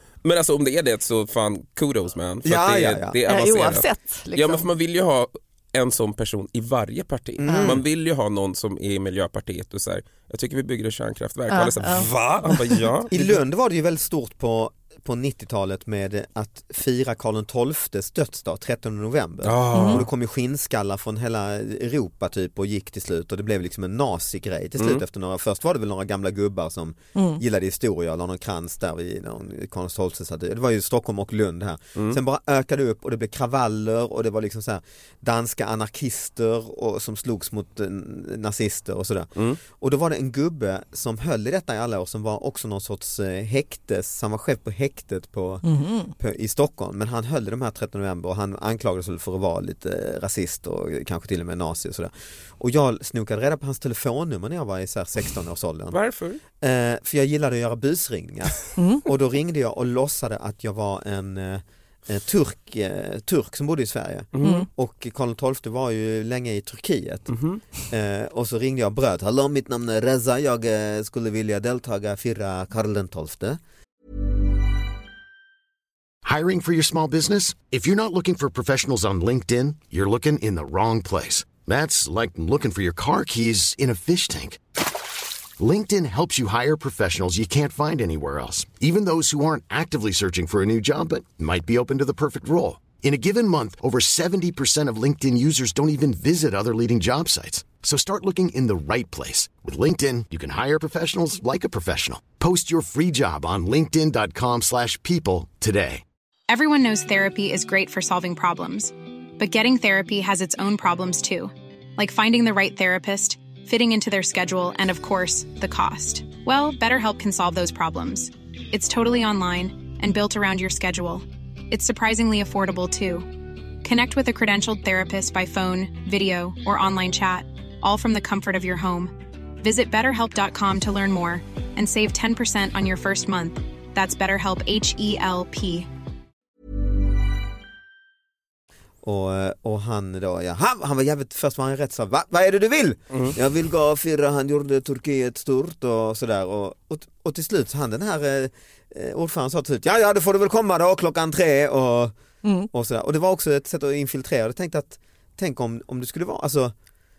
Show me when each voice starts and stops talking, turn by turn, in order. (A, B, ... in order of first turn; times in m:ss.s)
0:00.2-0:13.1 A
0:02.4-0:03.2 B
0:03.3-0:04.7 C
0:07.4-0:07.8 B
0:07.5-0:07.8 C
0:11.5-0:13.3 C
0:13.1-0:56.0 B
0:19.4-0:20.1 A
0:19.7-0:20.0 C
0:24.8-0:25.0 A
0:27.2-0:27.4 C
0:45.6-0:46.1 C
0:55.9-0:56.4 A
0:56.6-1:13.6 B
0:58.8-0:59.0 C
1:04.3-1:04.7 A
1:04.4-1:04.7 C
1:07.3-1:07.6 A
1:16.2-1:25.0 D
1:25.6-1:46.0 D
1:46.5-2:03.3 E
2:03.8-2:15.9 E
2:19.0-2:32.2 B
2:32.4-2:32.7 C
2:32.7-2:36.7 B